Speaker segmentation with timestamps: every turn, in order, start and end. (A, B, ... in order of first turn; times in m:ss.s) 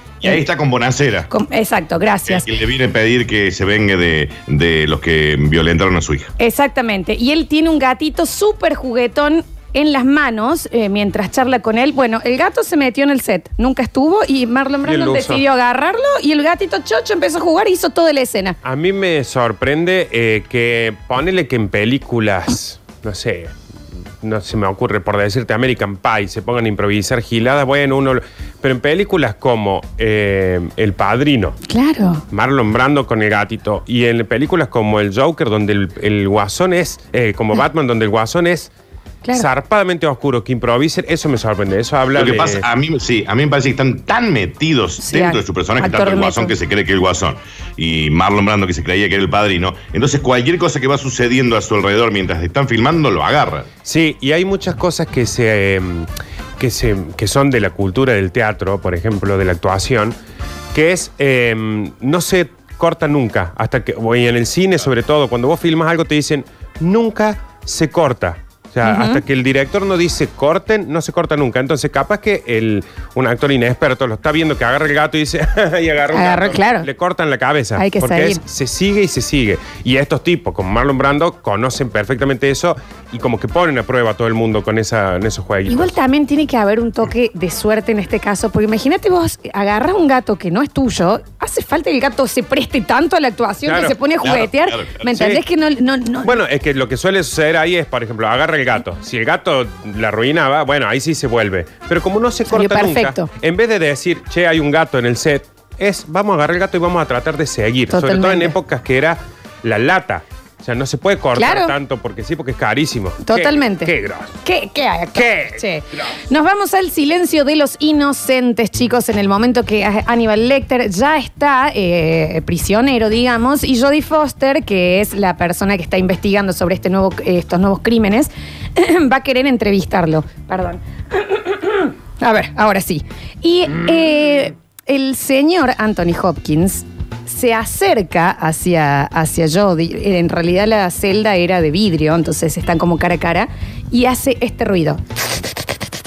0:00.2-0:01.3 A
0:01.3-0:02.4 B
0:02.3-0:06.3 A
0:06.4-0:18.6 B
0:14.8-0:15.4 C
0:18.6-0:23.5 C
0:24.2-0:31.6 C
0:31.7-0:32.2 B
0:32.3-0:38.7 C
0:39.3-0:42.6 C
0:42.1-0:53.7 A
0:45.0-0:46.5 B
0:53.8-0:56.1 C
0:56.6-1:00.1 C
1:00.7-1:26.0 C
1:08.8-1:09.2 B
1:16.1-1:16.9 B
1:17.8-1:18.4 B
1:25.7-1:36.3 B
1:33.6-1:34.0 C
1:34.2-1:35.1 A
1:35.1-1:35.4 C
1:36.2-1:54.4 C
1:42.5-1:43.3 B
1:47.9-1:48.6 B
1:51.4-1:51.7 B
1:53.2-1:53.9 B
1:54.4-2:25.0 B
1:55.1-1:56.0 C